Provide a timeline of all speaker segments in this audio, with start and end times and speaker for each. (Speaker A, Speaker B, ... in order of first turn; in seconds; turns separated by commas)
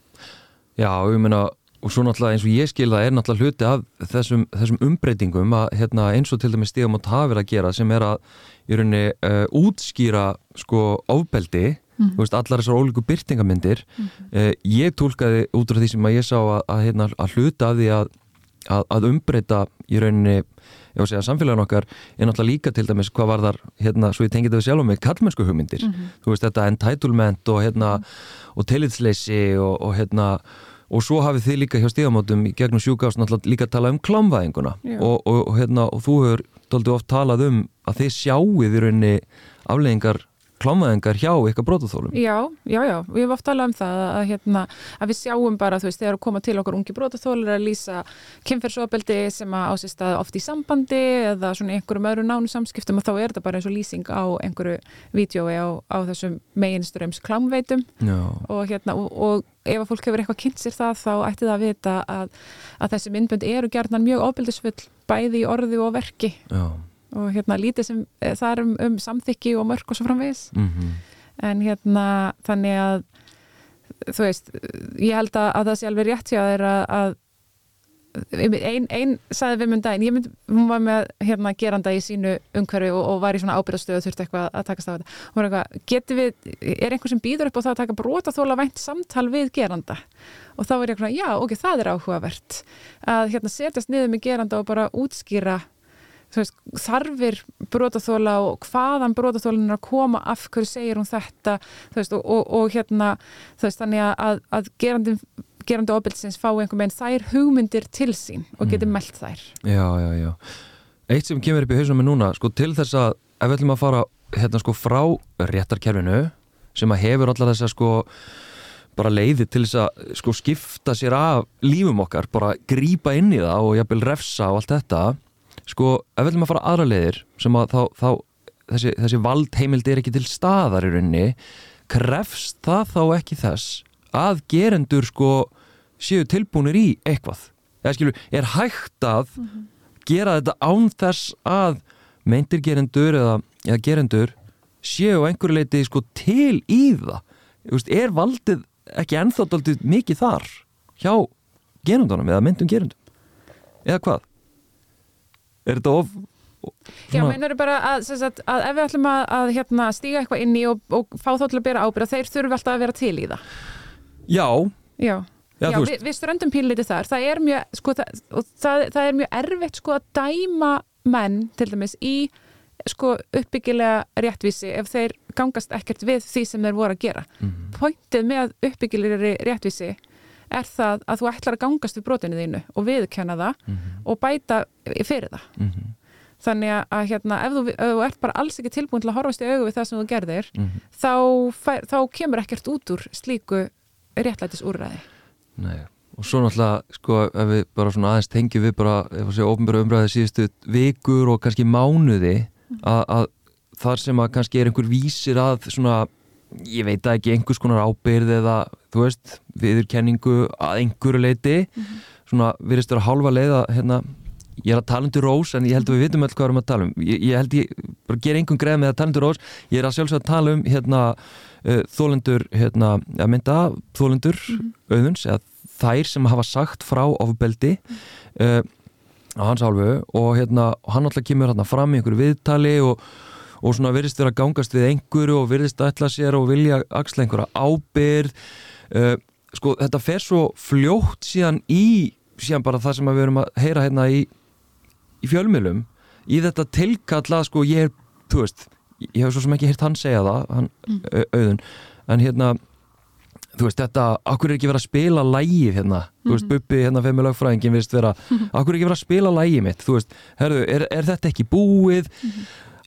Speaker A: 0.8-18.1, Speaker A: 18.7-42.2, Speaker B: 25.8-26.1, Speaker B: 42.1-57.9, Speaker A: 58.0-58.5, Speaker B: 58.4-66.4, Speaker A: 66.5-66.9, Speaker B: 67.1-70.5, Speaker A: 70.5-71.0, Speaker B: 71.4-73.0, Speaker B: 74.0-77.2, Speaker B: 78.1-90.0, Speaker B: 90.6-95.7, Speaker B: 96.3-109.6, Speaker A: 108.6-108.9, Speaker A: 109.6-110.4, Speaker A: 111.1-118.1, Speaker A: 119.0-131.4, Speaker A: 131.9-139.4, Speaker A: 140.1-151.3, Speaker A: 151.8-152.9, Speaker A: 153.8-154.2, Speaker A: 155.7-157.4, Speaker B: 157.1-163.4, Speaker A: 164.3-164.8, Speaker B: 165.0-180.0, Speaker A: 165.6-166.0, Speaker A: 177.4-177.7, Speaker B: 180.5-185.5, Speaker A: 183.7-184.0, Speaker A: 185.6-185.9, Speaker B: 186.4-195.1, Speaker A: 190.6-190.8, Speaker A: 195.6-227.8, Speaker A: 228.3-228.7, Speaker A: 229.4-233.0, Speaker A: 233.6-238.3, Speaker A: 238.9-244.3, Speaker A: 245.2-252.6, Speaker A: 253.6-262.4